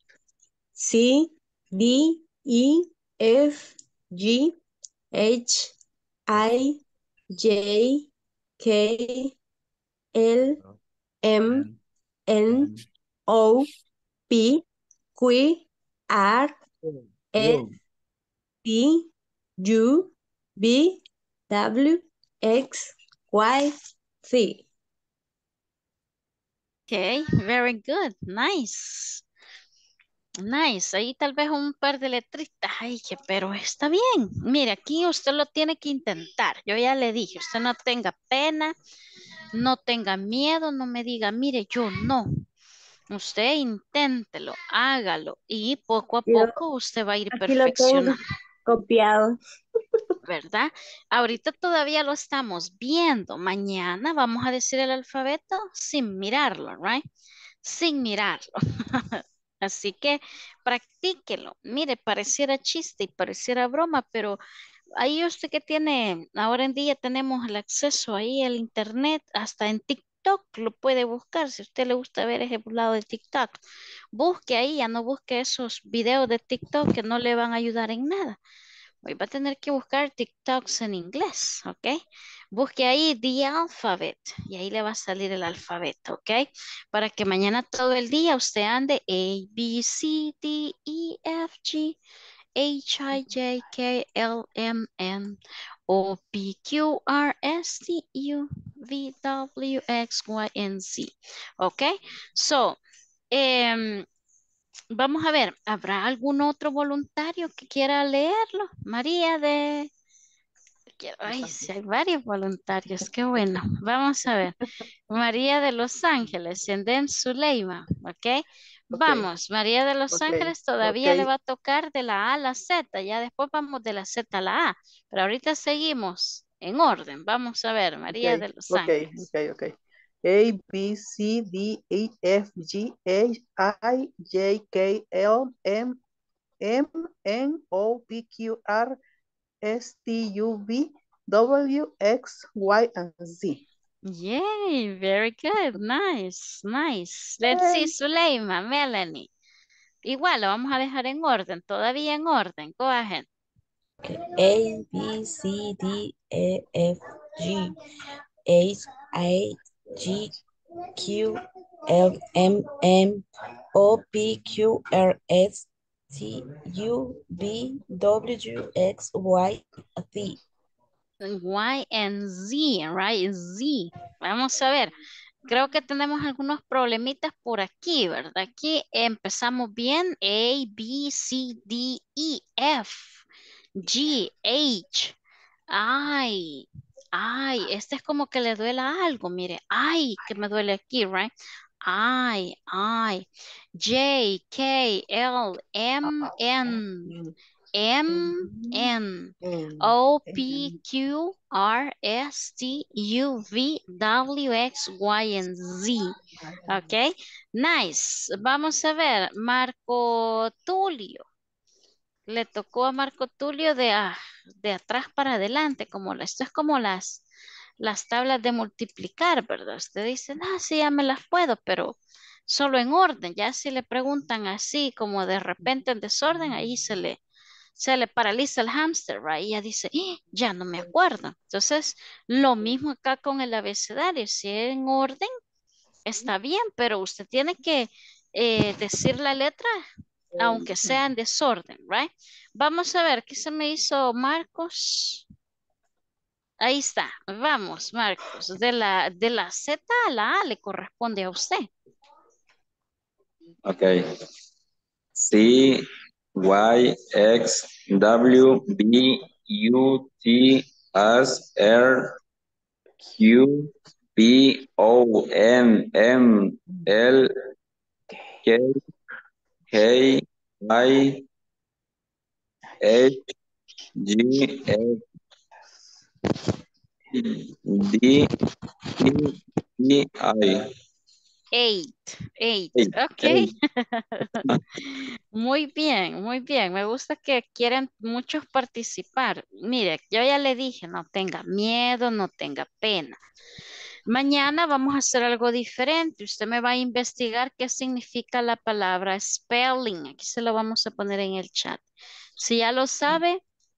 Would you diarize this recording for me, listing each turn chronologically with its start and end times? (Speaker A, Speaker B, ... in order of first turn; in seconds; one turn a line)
Speaker A: 0.8-4.5
Speaker A: 5.1-5.7
Speaker A: 6.3-6.8
Speaker A: 7.3-8.1
Speaker A: 8.6-9.3
Speaker A: 10.2-10.6
Speaker A: 11.2-11.7
Speaker A: 12.3-12.7
Speaker A: 13.3-13.7
Speaker A: 14.3-14.6
Speaker A: 15.2-16.6
Speaker A: 17.3-17.7
Speaker A: 18.6-24.6
Speaker B: 26.9-29.2
Speaker B: 30.4-38.7
Speaker B: 39.5-42.3
Speaker B: 43.1-48.2
Speaker A: 46.3-46.5
Speaker A: 47.3-49.4
Speaker B: 50.2-57.0
Speaker B: 57.6-64.4
Speaker B: 65.0-73.6
Speaker B: 74.1-78.4
Speaker B: 79.0-82.0
Speaker B: 82.5-92.0
Speaker B: 92.6-102.8
Speaker B: 103.3-104.0
Speaker B: 104.9-109.9
Speaker B: 111.0-114.5
Speaker C: 111.3-111.6
Speaker B: 115.1-129.3
Speaker C: 118.9-119.3
Speaker C: 120.1-121.3
Speaker C: 128.1-129.7
Speaker C: 130.2-136.0
Speaker C: 136.6-139.0
Speaker C: 139.6-143.6
Speaker B: 144.1-149.3
Speaker C: 147.5-147.9
Speaker B: 150.0-153.3
Speaker D: 154.0-157.8
Speaker D: 158.5-160.3
Speaker D: 161.0-170.4
Speaker B: 171.2-174.9
Speaker B: 175.5-183.2
Speaker B: 183.8-185.2
Speaker B: 185.7-191.3
Speaker B: 191.8-193.2
Speaker B: 193.8-197.1
Speaker C: 196.0-197.3
Speaker B: 197.8-206.1
Speaker C: 198.1-200.8
Speaker C: 206.4-206.9
Speaker B: 206.7-211.2
Speaker B: 212.3-217.2
Speaker B: 217.8-227.2
Speaker B: 227.8-235.3
Speaker B: 236.1-239.8
Speaker C: 240.4-241.0
Speaker B: 240.4-245.2
Speaker B: 246.6-251.7
Speaker E: 253.7-254.0
Speaker E: 255.2-255.9
Speaker E: 256.4-262.1
Speaker E: 263.0-267.3
Speaker E: 268.4-268.7
Speaker E: 269.7-271.2
Speaker E: 272.8-273.2
Speaker E: 274.0-275.0
Speaker E: 277.1-278.3
Speaker E: 279.0-280.6
Speaker B: 281.5-293.2
Speaker E: 282.8-283.5
Speaker B: 294.1-301.8
Speaker B: 302.4-303.4